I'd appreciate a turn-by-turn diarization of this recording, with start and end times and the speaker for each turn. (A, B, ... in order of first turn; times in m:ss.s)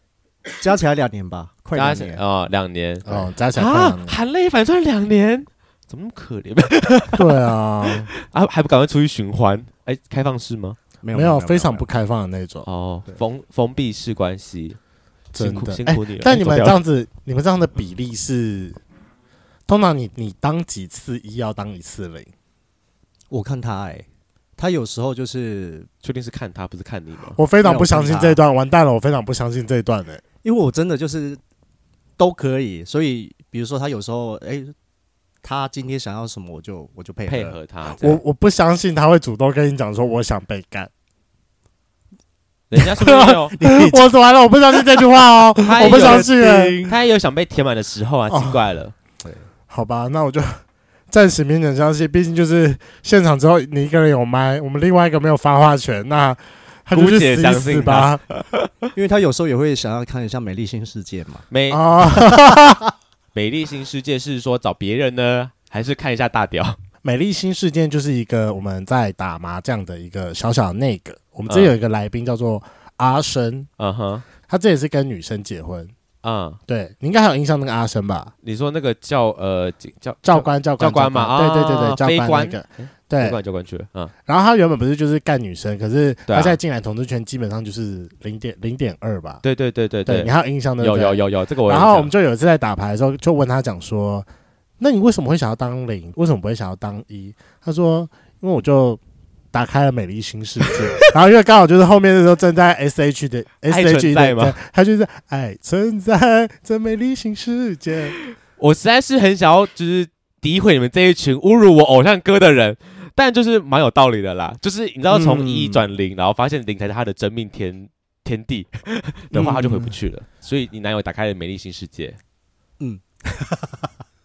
0:00.6-0:02.2 A
0:01.7-0:10.8 B
0:03.0-0:04.2 C
0:07.1-0:08.1 C
0:11.0-0:11.9 A
0:11.1-0:12.7 C
0:12.6-0:14.8 B
0:15.3-0:16.8 B
0:15.3-0:18.8 C
0:19.7-0:22.3 C
0:23.3-0:24.0 A
0:24.6-0:25.9 A
0:26.0-0:27.4 B
0:27.3-0:30.2 C
0:27.6-0:28.4 A
0:30.4-0:31.4 A
0:32.2-0:34.7 A
0:35.4-0:37.6 A
0:37.3-0:38.2 B
0:37.9-0:40.9 C
0:42.7-0:43.5 B
0:43.0-0:46.8 C
0:43.2-0:44.0 A
0:45.6-0:47.0 A
0:45.6-0:46.3 B
0:46.8-0:48.9 B
0:48.3-0:48.6 C
0:49.7-0:58.2 C
0:56.9-0:58.7 B
0:58.9-1:01.5 A
1:01.5-1:01.9 B
1:01.7-1:02.8 C
1:02.1-1:02.8 A
1:03.3-1:06.8 B
1:07.0-1:13.7 C
1:11.5-1:11.7 B
1:13.8-1:14.2 B
1:14.5-1:15.9 C
1:16.2-1:16.6 B
1:16.7-1:18.3 C
1:18.4-1:24.1 B
1:20.2-1:23.4 C
1:24.2-1:29.4 C
1:26.3-1:26.6 B
1:29.4-1:32.1 B
1:30.0-1:34.3 C
1:34.8-1:39.0 C
1:39.5-1:48.1 C
1:43.6-1:44.6 B
1:48.6-2:02.2 B
1:55.1-1:55.8 C
1:59.3-1:59.9 C
2:02.8-2:03.9 A